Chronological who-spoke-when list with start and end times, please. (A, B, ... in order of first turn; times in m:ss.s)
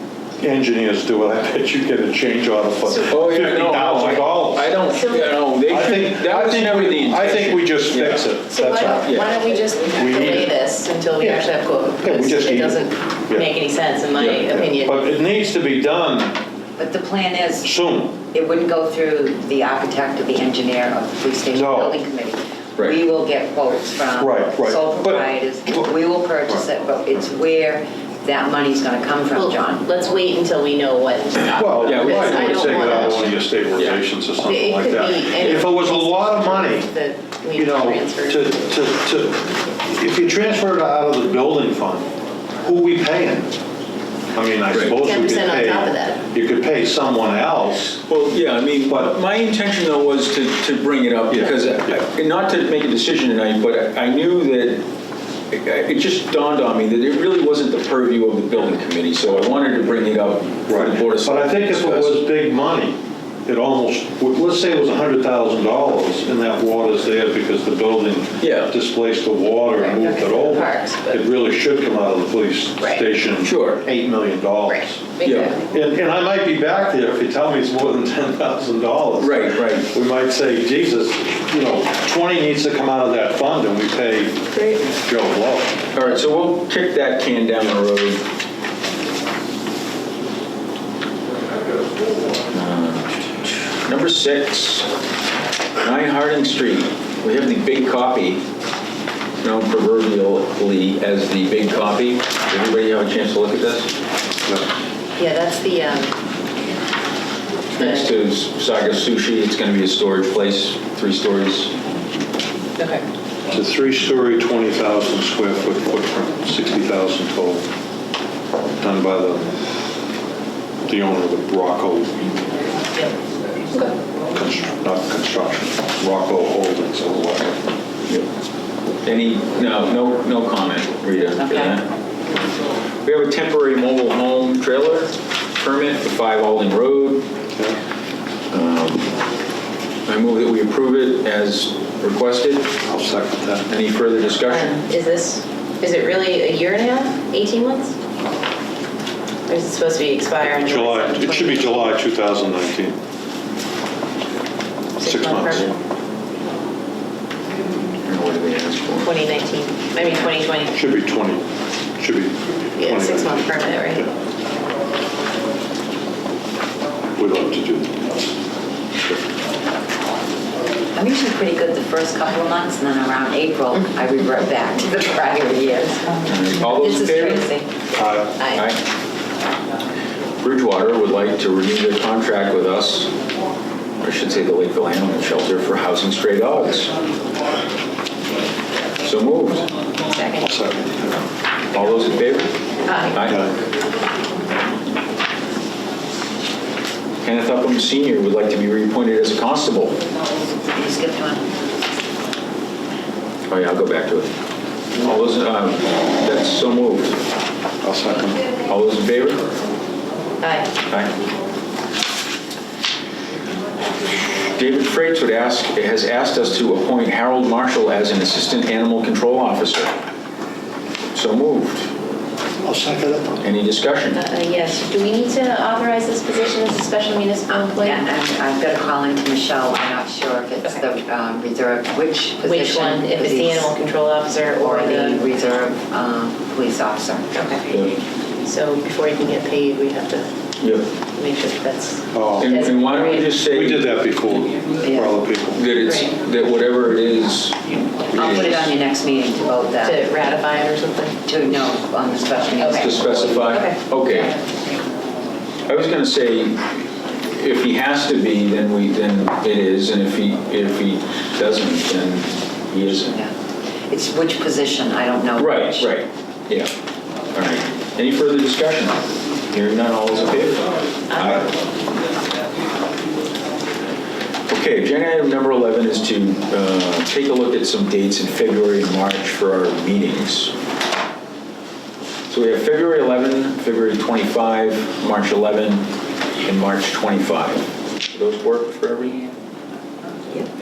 0:00.4-0:04.8 A
0:03.1-0:08.3 B
0:04.9-0:05.2 C
0:05.6-0:09.2 A
0:08.5-0:15.2 C
0:08.8-0:09.4 B
0:09.9-0:10.5 A
0:12.0-0:13.5 A
0:14.1-0:14.5 B
0:14.5-0:16.4 A
0:16.8-0:17.7 D
0:17.6-0:18.2 A
0:18.3-0:29.8 D
0:21.5-0:22.0 A
0:24.2-0:25.9 A
0:29.3-0:33.3 C
0:31.5-0:36.9 A
0:31.8-0:34.0 B
0:34.4-0:38.5 C
0:37.5-0:42.1 A
0:42.6-0:43.5 A
0:44.3-0:48.0 A
0:44.9-0:46.2 C
0:48.1-0:54.8 B
0:48.9-0:49.1 A
0:55.5-1:02.2 B
1:00.7-1:25.8 A
1:08.4-1:08.7 B
1:09.8-1:11.2 C
1:12.8-1:13.1 C
1:13.4-1:13.8 B
1:14.7-1:15.6 C
1:15.2-1:15.6 B
1:19.2-1:19.9 B
1:24.5-1:24.8 C
1:25.9-1:28.3 B
1:32.5-1:34.9 B
1:35.8-1:38.4 B
1:39.4-1:43.9 B
1:45.2-1:46.1 C
1:47.7-1:51.7 B
1:47.8-1:48.0 C
1:52.8-1:53.0 C
1:53.5-1:57.6 A
1:58.8-1:59.5 A
2:00.8-2:02.2 A
2:04.3-2:07.6 A
2:09.0-2:11.9 B
2:11.4-2:11.8 D
2:13.0-2:17.3 B
2:18.5-2:19.1 B
2:20.0-2:22.7 B
2:22.8-2:23.7 A
2:23.7-2:24.8 B
2:24.5-2:28.0 C
2:29.5-2:31.9 C
2:30.6-2:33.0 A
2:35.0-2:35.8 C
2:35.0-2:35.7 A
2:38.0-2:39.1 B
2:39.0-2:40.7 C
2:40.7-2:44.0 A
2:42.8-2:44.0 C
2:47.2-2:48.3 A
2:50.9-2:57.7 D
2:56.2-2:57.5 B
2:57.9-2:58.3 A
2:58.4-2:58.7 C
2:58.5-2:58.8 B
3:00.4-3:03.1 B
3:04.0-3:06.9 B
3:09.0-3:09.7 B
3:10.4-3:11.2 A
3:11.7-3:12.5 B
3:12.8-3:13.2 C
3:13.1-3:13.4 B
3:17.2-3:20.0 B
3:20.7-3:21.5 D
3:23.5-3:24.3 B
3:25.0-3:27.2 B
3:27.8-3:28.4 A
3:28.6-3:29.4 B
3:30.4-3:30.7 C
3:34.5-3:39.9 B
3:41.1-3:41.9 B
3:42.6-3:43.4 A
3:43.4-3:44.2 B
3:44.1-3:48.0 C
3:47.5-3:53.7 D
3:52.4-3:55.2 C
3:54.5-3:57.5 D
3:57.3-3:57.6 C
3:57.7-3:58.0 B
3:58.4-4:00.3 C
4:00.6-4:00.9 B
4:01.1-4:03.3 C
4:02.1-4:02.8 A
4:02.4-4:03.9 B
4:03.4-4:05.6 A
4:04.8-4:05.2 D
4:05.5-4:08.7 B
4:05.8-4:06.1 C
4:08.1-4:10.0 D
4:09.8-4:11.2 C
4:11.2-4:13.8 D
4:12.6-4:12.8 C
4:12.7-4:14.3 B
4:15.7-4:23.2 B
4:22.9-4:23.3 D
4:23.9-4:25.9 D
4:25.4-4:26.7 B
4:27.3-4:31.5 B
4:31.1-4:31.4 C
4:34.5-4:40.5 B
4:42.3-4:45.9 B
4:46.4-4:49.2 B